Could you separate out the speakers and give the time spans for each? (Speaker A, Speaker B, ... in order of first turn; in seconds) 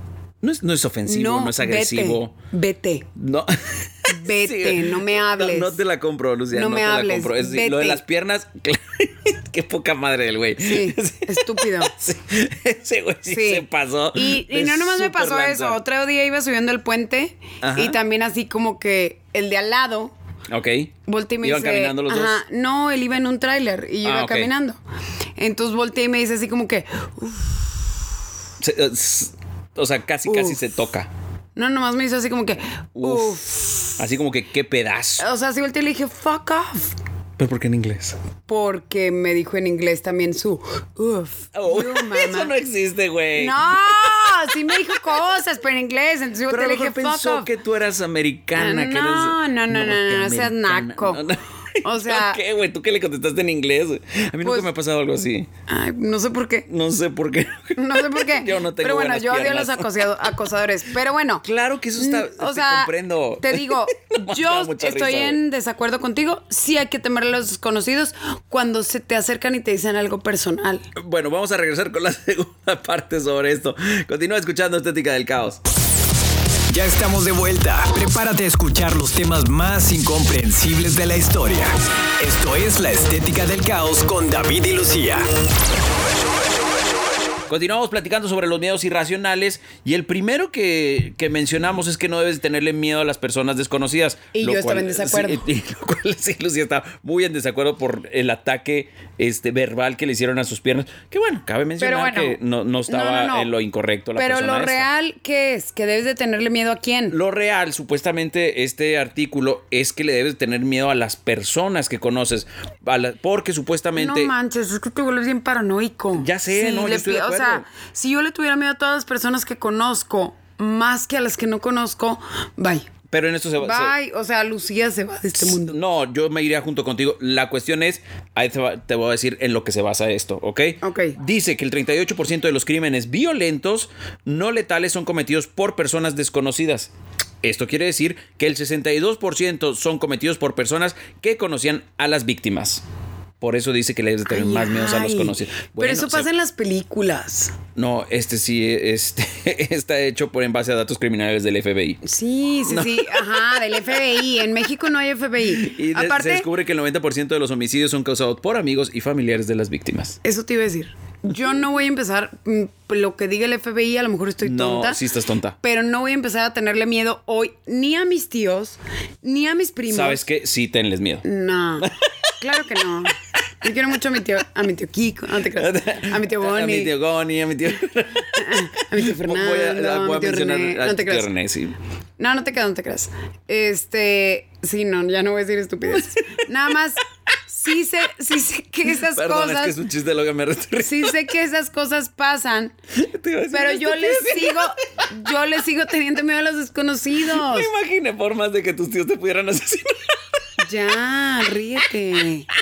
Speaker A: 0.4-2.3, 3.1-15.8, 17.6-17.9, 20.5-22.4, 24.0-24.5, 28.6-31.1, 33.0-33.4, 34.0-35.2, 37.4-38.2, 41.5-44.8, 46.5-55.5, 56.7-60.0, 61.4-65.4, 71.0-75.6, 87.5-104.9, 107.1-114.3, 116.2-117.6, 123.1-123.9, 125.4-136.9, 137.4-142.8, 143.4-146.3, 147.8-152.0, 152.7-154.0, 155.5-160.2, 164.4-165.6, 169.9-171.2, 175.5-181.7, 188.9-191.1, 192.9-194.7, 197.2-200.2
Speaker B: 1.1-3.1, 4.1-5.8, 6.5-8.0, 10.6-11.9, 13.3-20.1, 21.1-24.8, 25.4-27.8, 30.2-30.6, 31.6-34.0, 35.2-36.9, 38.5-42.5, 43.4-47.5, 48.5-51.2, 51.8-52.4, 54.4-54.7, 55.7-56.7, 57.8-61.5, 62.0-70.9, 94.3-95.4, 101.8-103.5, 104.2-107.1, 114.0-122.9, 123.6-125.7, 130.8-131.2, 144.2-147.5, 152.0-156.5, 160.2-165.0, 165.6-170.2, 171.2-176.9, 178.3-181.3, 182.2-189.8, 190.8-192.7, 193.5-197.7, 200.6-202.5
Speaker C: 76.7-85.3